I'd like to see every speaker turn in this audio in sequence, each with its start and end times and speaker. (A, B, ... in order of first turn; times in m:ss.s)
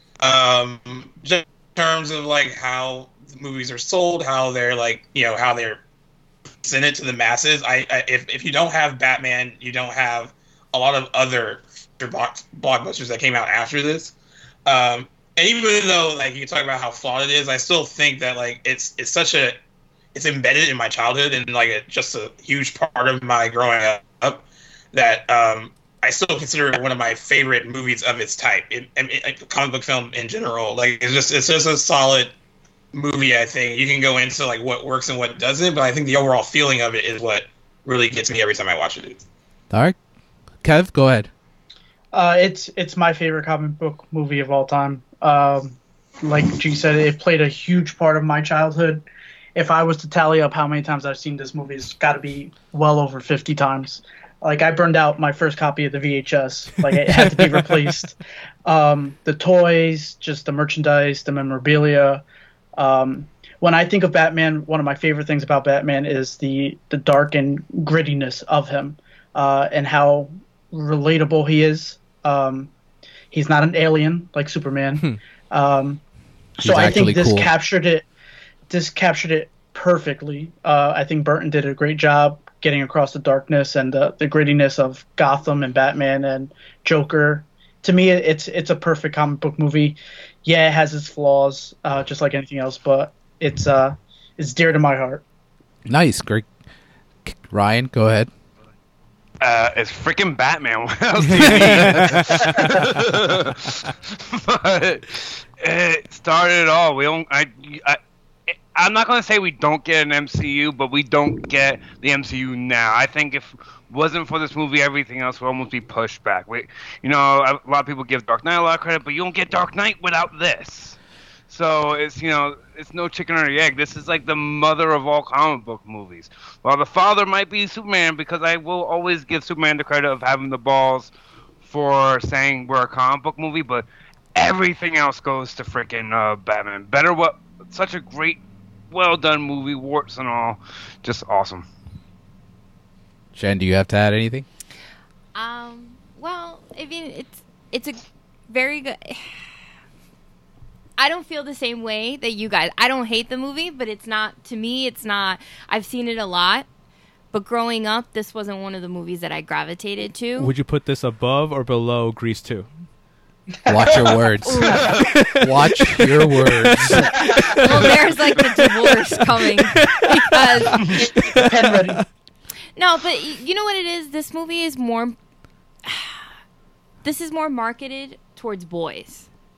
0:00.2-0:05.8 A
0:06.6-0:14.2 A
0:14.7-0:19.6 A
0:20.1-0:32.3 A
0:32.9-0:39.2 A
0:40.6-0:41.3 B
0:42.1-0:49.0 C
0:49.6-1:02.2 C
0:56.9-0:58.0 D
1:02.8-1:12.7 C
1:13.3-1:16.0 C
1:16.6-1:17.5 B
1:16.6-1:18.0 C
1:18.7-1:35.2 C
1:35.9-1:36.5 B
1:37.2-1:38.3 B
1:39.4-1:48.0 E
1:41.2-1:42.9 D
1:48.7-2:01.0 E
2:01.5-2:11.1 E
2:11.6-2:21.7 E
2:23.4-2:24.5 B
2:25.4-2:29.4 F
2:31.0-2:36.7 F
2:37.3-2:40.5 F
2:40.4-2:42.7 D
2:43.7-2:47.3 B
2:44.4-2:45.0 F
2:44.9-2:52.0 D
2:47.1-2:47.5 C
2:47.5-2:51.0 F
2:50.7-2:52.0 C
2:52.8-2:55.2 F
2:55.8-2:56.2 F
2:57.0-2:59.3 F